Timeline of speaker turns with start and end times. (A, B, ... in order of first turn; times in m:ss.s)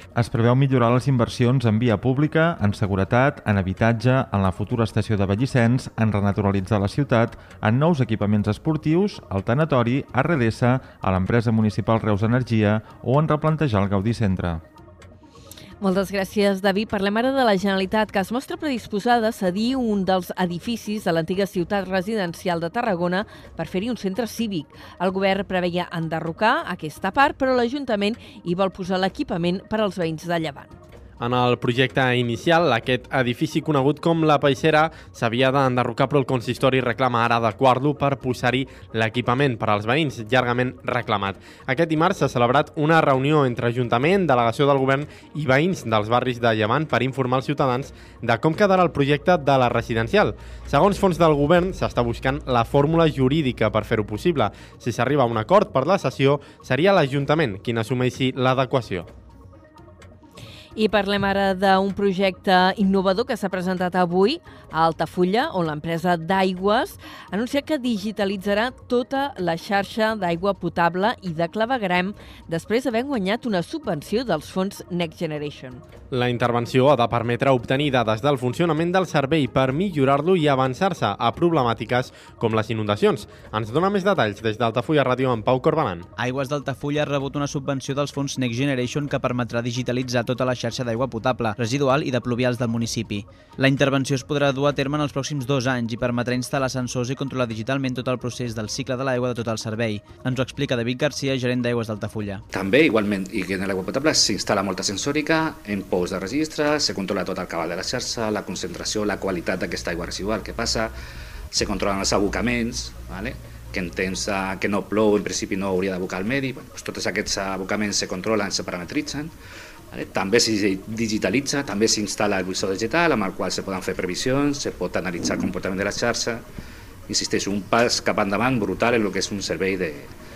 0:00.2-0:14.6 A
0:15.8-0:30.8 B
0:31.2-0:59.1 C
1:00.8-1:15.8 B
1:16.1-1:26.1 C
1:26.2-1:42.4 D
1:42.5-1:50.9 E
1:51.5-1:59.3 E
1:59.9-2:06.4 E
2:07.1-2:10.1 E